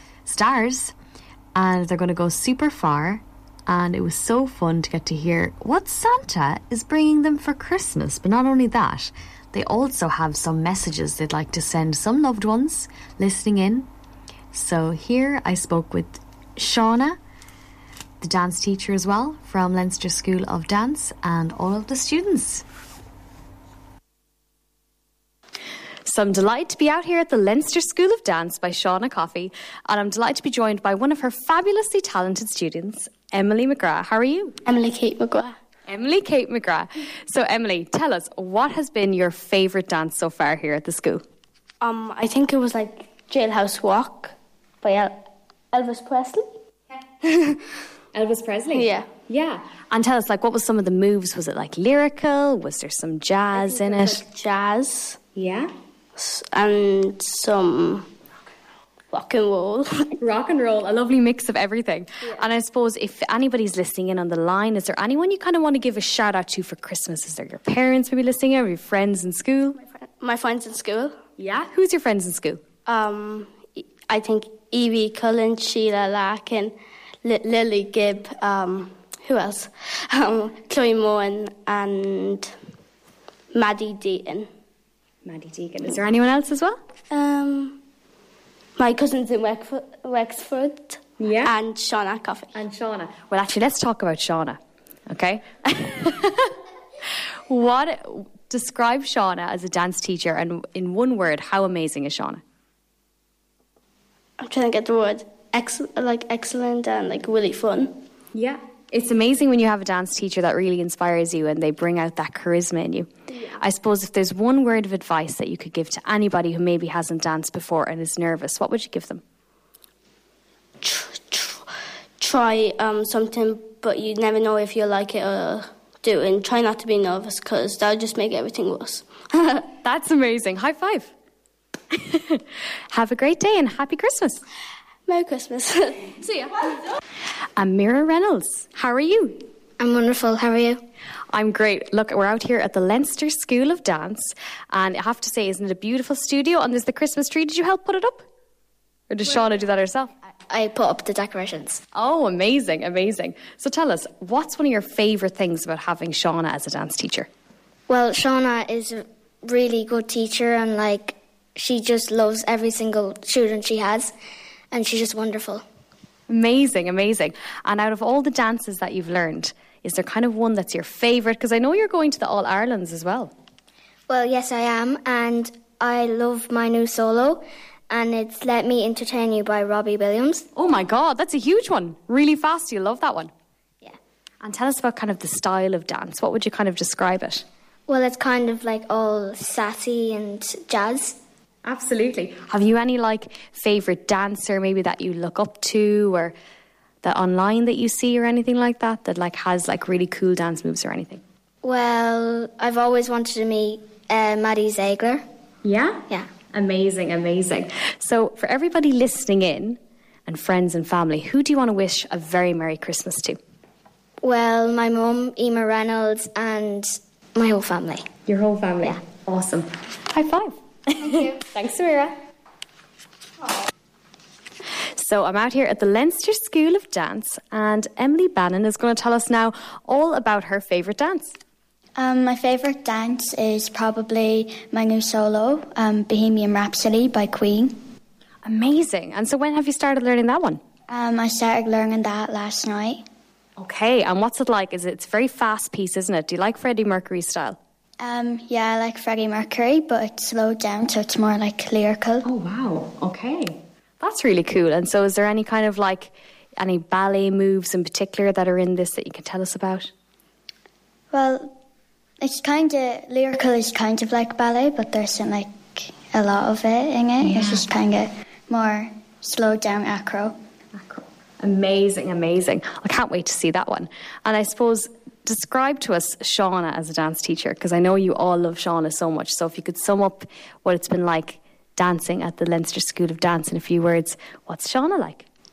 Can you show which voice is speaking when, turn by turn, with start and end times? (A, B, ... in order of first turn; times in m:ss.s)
0:00.3-0:00.9 A
0:01.6-0:13.8 A
0:14.6-0:16.1 A
0:16.6-0:17.2 A
0:18.2-0:22.6 A
0:26.1-0:34.6 A
0:34.7-0:35.6 B
0:35.9-0:41.2 A
0:41.8-0:46.5 B
0:47.2-0:47.6 B
0:48.1-0:54.2 A
0:48.7-0:49.1 B
0:53.6-0:55.2 B
0:55.4-0:55.7 A
0:56.2-0:58.1 B
0:59.1-1:00.1 B
1:00.2-1:09.8 A
1:09.8-1:11.2 B
1:11.4-1:12.6 A
1:12.9-1:22.5 B
1:23.5-1:24.5 B
1:25.2-1:26.8 A
1:27.1-1:27.8 B
1:28.8-1:32.6 B
1:31.2-1:31.6 A
1:32.5-1:34.6 A
1:35.1-1:36.5 A
1:37.5-1:42.4 A
1:44.4-1:48.0 B
1:48.3-1:59.2 A
2:00.8-2:09.7 B
2:09.8-2:11.1 A
2:11.9-2:14.4 A
2:15.1-2:16.7 B
2:17.6-2:19.4 A
2:19.8-2:20.8 C
2:21.3-2:28.3 A
2:29.1-2:30.1 A
2:30.5-2:31.8 C
2:31.9-2:37.3 A
2:37.9-2:44.1 C
2:44.7-2:45.6 C
2:46.3-2:53.3 A
2:54.1-3:00.4 C
3:00.6-3:03.3 A
3:04.4-3:07.4 A
3:07.9-3:11.2 C
3:11.6-3:16.4 A
3:17.0-3:21.2 A
3:21.6-3:25.2 C
3:25.6-3:33.4 A
3:34.2-3:38.0 C
3:38.3-3:42.2 A
3:45.0-3:51.3 A
3:52.0-3:57.7 D
3:58.4-4:00.6 A
4:00.9-4:03.0 D
4:03.6-4:07.6 A
4:08.0-4:12.2 D
4:12.2-4:19.9 A
4:21.1-4:21.6 D
4:22.2-4:30.4 D
4:27.2-4:27.6 A
4:30.8-4:45.3 A